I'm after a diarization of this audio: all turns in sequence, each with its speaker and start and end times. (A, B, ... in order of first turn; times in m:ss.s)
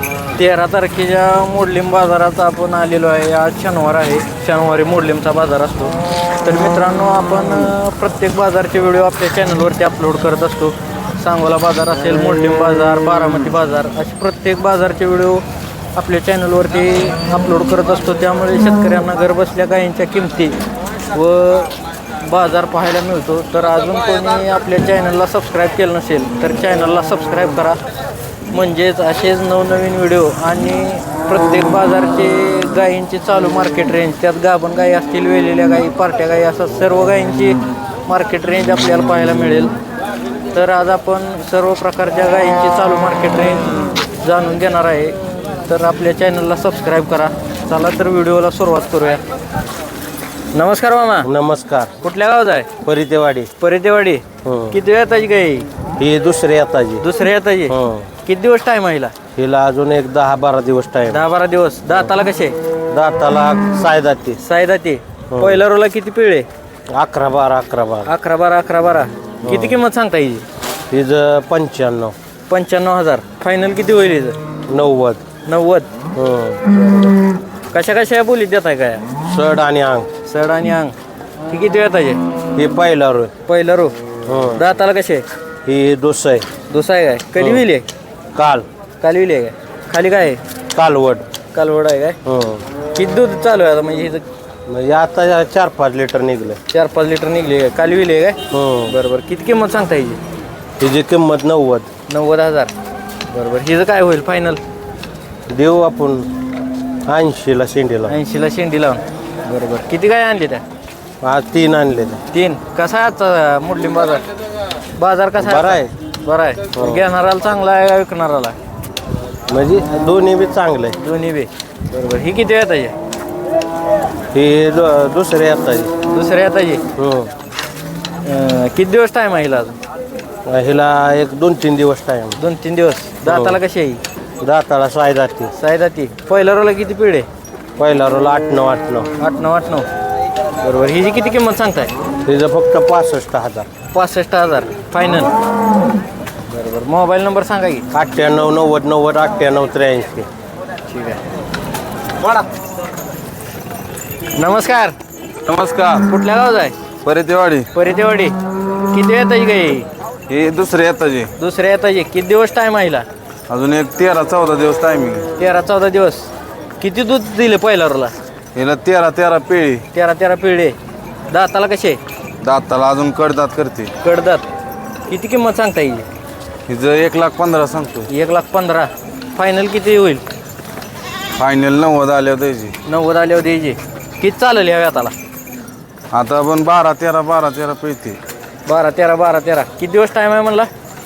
0:00.3-0:15.4 A
0:15.9-0:20.6 A
0:21.1-0:27.8 A
0:28.5-0:39.7 A
0:40.5-0:49.2 A
0:50.5-0:51.3 A
0:51.2-0:51.9 B
0:52.0-0:52.7 A
0:52.8-0:53.5 B
0:53.6-0:55.6 A
0:54.4-0:54.8 B
0:56.0-0:57.0 B
0:57.0-0:59.1 A
0:57.7-0:58.1 B
0:59.4-1:01.2 B
1:01.1-1:02.5 A
1:02.9-1:04.4 B
1:04.4-1:06.5 A
1:05.3-1:05.6 B
1:06.9-1:08.1 B
1:08.0-1:10.4 A
1:09.4-1:09.8 B
1:10.9-1:12.1 B
1:12.5-1:14.4 A
1:14.7-1:15.2 B
1:15.4-1:15.9 A
1:16.1-1:16.6 B
1:16.8-1:17.1 A
1:17.7-1:19.0 A
1:19.3-1:20.1 B
1:20.2-1:20.9 A
1:21.5-1:22.2 A
1:22.6-1:23.3 B
1:23.5-1:23.9 A
1:24.2-1:24.6 B
1:24.5-1:25.2 A
1:25.6-1:26.5 B
1:26.7-1:27.8 A
1:27.4-1:27.6 B
1:28.3-1:28.6 B
1:29.0-1:30.4 A
1:30.7-1:31.2 B
1:31.5-1:32.2 A
1:32.2-1:32.6 B
1:32.9-1:34.2 A
1:34.7-1:36.6 B
1:36.7-1:38.4 A
1:38.5-1:38.9 B
1:38.9-1:40.2 A
1:40.8-1:41.9 B
1:42.1-1:42.7 A
1:43.3-1:44.6 A
1:45.5-1:46.3 B
1:47.0-1:48.2 B
1:48.1-1:50.6 A
1:51.2-1:52.2 B
1:52.3-1:54.2 A
1:55.0-1:58.6 A
1:55.4-1:55.9 B
1:56.7-1:57.0 B
1:59.5-2:01.0 B
2:01.0-2:03.0 A
2:04.3-2:05.9 B
2:06.1-2:06.8 A
2:07.0-2:07.3 B
2:08.2-2:09.8 A
2:10.4-2:12.4 B
2:12.4-2:14.0 A
2:13.2-2:13.6 B
2:14.4-2:15.5 B
2:15.6-2:17.3 A
2:17.8-2:19.1 B
2:19.2-2:19.8 A
2:20.6-2:21.9 A
2:22.2-2:23.7 B
2:23.9-2:25.3 A
2:26.5-2:27.8 A
2:27.9-2:30.3 B
2:30.9-2:31.2 A
2:34.4-2:34.9 A
2:35.5-2:36.0 C
2:36.1-2:36.7 A
2:37.0-2:37.7 C
2:37.7-2:38.3 A
2:38.9-2:39.9 A
2:40.3-2:41.3 C
2:41.4-2:43.0 A
2:43.5-2:45.2 C
2:45.4-2:48.1 A
2:48.5-2:49.8 C
2:49.9-2:50.8 A
2:51.3-2:52.0 A
2:52.4-2:53.9 C
2:54.0-2:54.4 A
2:55.1-2:56.1 A
2:56.7-2:58.1 C
2:58.1-3:00.2 A
3:01.4-3:02.7 C
3:02.9-3:05.1 A
3:06.1-3:08.2 C
3:08.6-3:10.7 A